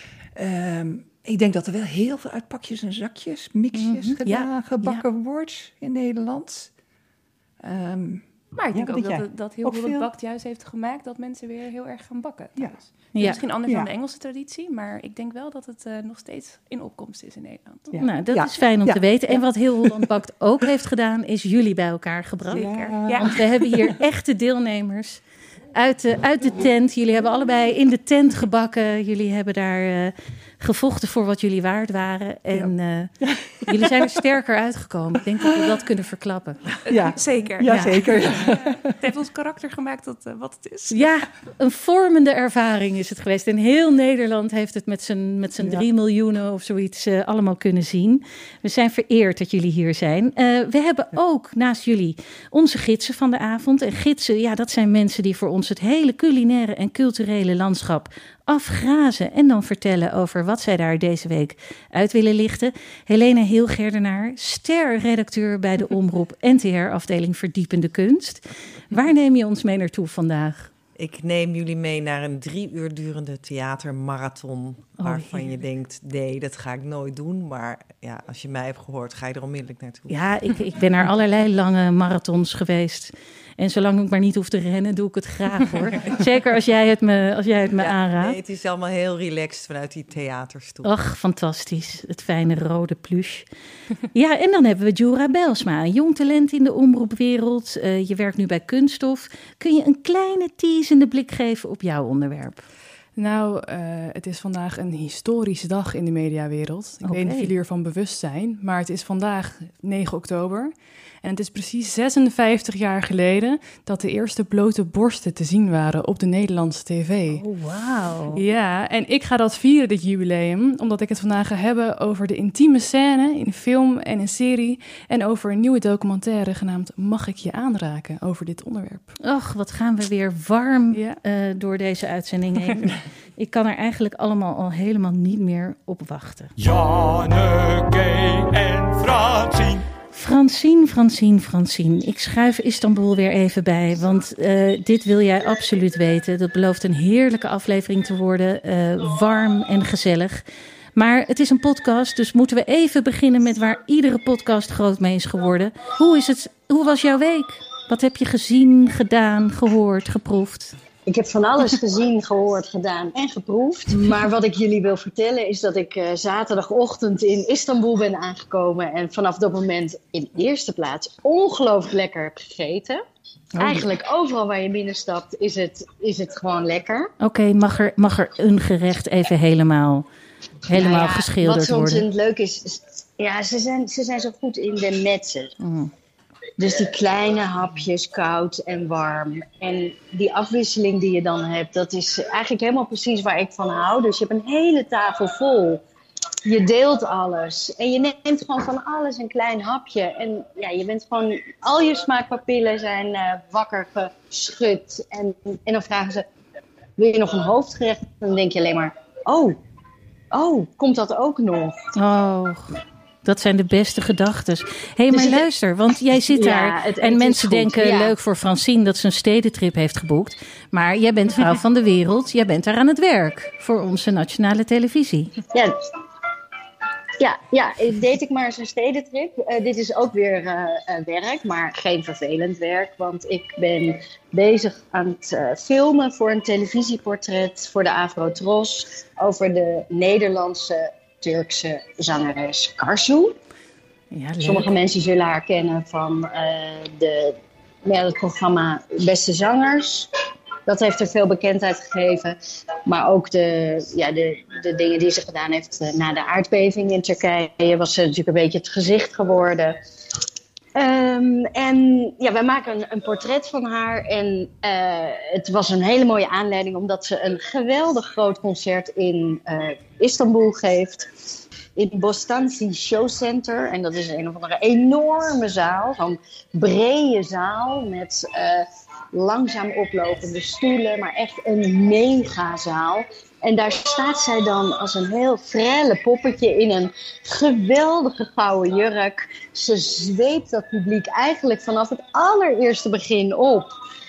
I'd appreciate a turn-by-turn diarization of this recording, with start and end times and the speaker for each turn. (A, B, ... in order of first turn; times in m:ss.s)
0:00.3-0:06.7 A
0:03.7-0:05.0 B
0:07.6-0:10.1 A
0:08.5-0:17.9 C
0:12.6-0:13.9 A
0:13.1-0:13.4 B
0:17.9-0:20.1 A
0:18.0-0:25.2 B
0:22.5-0:23.4 C
0:22.5-0:24.0 A
0:25.7-0:33.1 B
0:32.5-0:34.1 A
0:33.6-0:36.6 B
0:35.4-0:35.7 A
0:36.9-0:38.8 A
0:36.9-0:41.1 C
0:37.6-0:38.0 B
0:40.9-1:10.7 B
0:45.6-0:45.8 A
1:11.0-1:20.2 D
1:15.0-1:15.4 B
1:20.1-1:28.4 B
1:27.8-1:30.9 D
1:30.8-1:33.4 B
1:34.1-1:42.6 B
1:43.2-1:50.7 E
1:47.0-1:47.5 B
1:51.2-1:57.4 E
1:57.3-1:58.4 B
1:58.3-2:09.1 E
2:09.2-2:16.5 B
2:10.9-2:11.2 E
2:16.6-2:19.8 F
2:20.1-2:30.4 B
2:31.0-2:40.7 B
2:41.1-2:53.0 G
2:53.5-2:53.8 B
2:53.6-2:57.1 G
2:57.2-3:00.0 B
3:00.7-3:02.0 B
3:00.7-3:05.5 G
3:05.6-3:05.9 B
3:06.6-3:15.8 G
3:16.4-3:26.2 G
3:27.0-3:29.6 G
3:30.3-3:31.8 G
3:32.0-3:45.3 B
3:35.1-3:35.5 G
3:36.3-3:38.1 G
3:47.2-4:03.4 G
4:04.1-4:04.7 B
4:04.4-4:10.1 G
4:10.6-4:19.8 G
4:20.8-4:31.1 G
4:31.8-4:53.7 G